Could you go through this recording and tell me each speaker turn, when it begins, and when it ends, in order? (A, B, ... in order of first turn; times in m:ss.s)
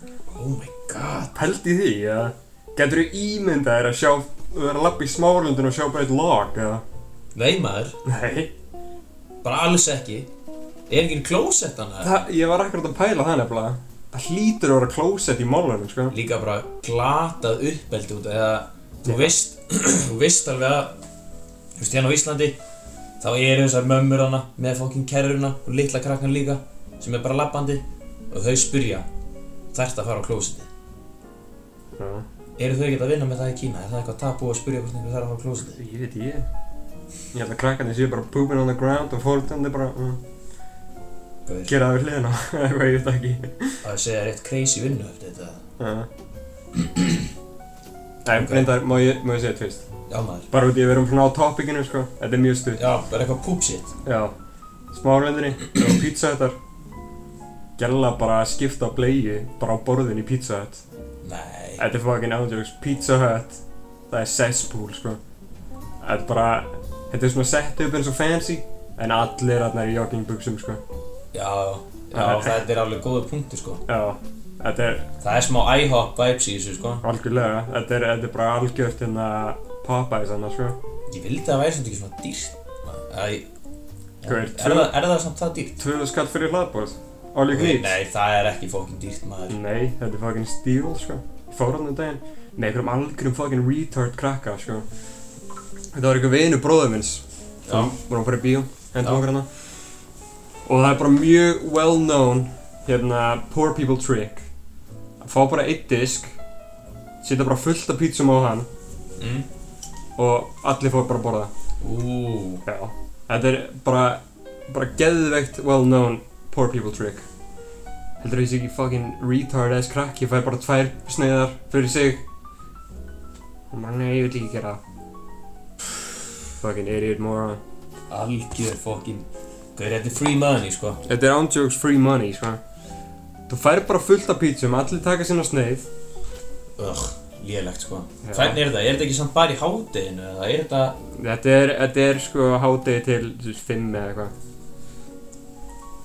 0:00.3-0:01.5 A
0:01.3-0:06.8 B
0:07.3-0:08.0 A
0:08.0-0:08.5 B
0:09.4-0:10.3 A
0:10.9-0:12.2 A
0:12.0-0:16.1 B
0:16.1-0:21.0 A
0:19.0-0:19.3 B
0:21.8-0:22.6 A
0:23.2-0:29.1 A
0:29.7-0:30.7 A
0:32.0-0:32.2 B
0:32.6-0:35.8 A
0:35.7-0:36.5 B
0:37.3-0:40.2 B
0:41.4-0:41.7 A
0:41.7-0:43.8 B
0:43.8-0:45.6 A
0:45.8-0:46.1 B
0:46.7-0:47.3 A
0:48.2-0:49.9 B
0:48.3-0:48.7 A
0:50.1-0:50.5 A
0:50.5-0:52.8 B
0:52.8-0:53.9 A
0:54.0-0:54.3 B
0:54.9-0:56.6 B
0:57.8-1:00.8 B
1:01.2-1:01.8 A
1:01.8-1:05.2 B
1:06.0-1:10.8 B
1:11.3-1:13.8 A
1:12.1-1:12.6 B
1:13.9-1:15.1 B
1:15.2-1:17.0 A
1:17.0-1:20.8 B
1:21.1-1:23.5 A
1:24.2-1:25.8 A
1:24.2-1:24.9 B
1:25.8-1:28.0 B
1:27.5-1:29.6 A
1:29.5-1:34.8 B
1:35.9-1:39.5 B
1:37.6-1:37.9 A
1:40.6-1:44.5 B
1:45.2-1:46.4 B
1:47.2-1:48.7 B
1:49.2-1:49.5 A
1:50.2-1:51.5 B
1:51.8-1:52.6 A
1:52.6-1:57.3 B
1:58.2-2:02.2 B
2:03.7-2:04.8 B
2:06.6-2:07.6 B
2:08.1-2:11.0 A
2:11.0-2:12.6 B
2:13.5-2:15.9 B
2:16.8-2:21.0 A
2:18.2-2:18.6 B
2:21.2-2:24.3 B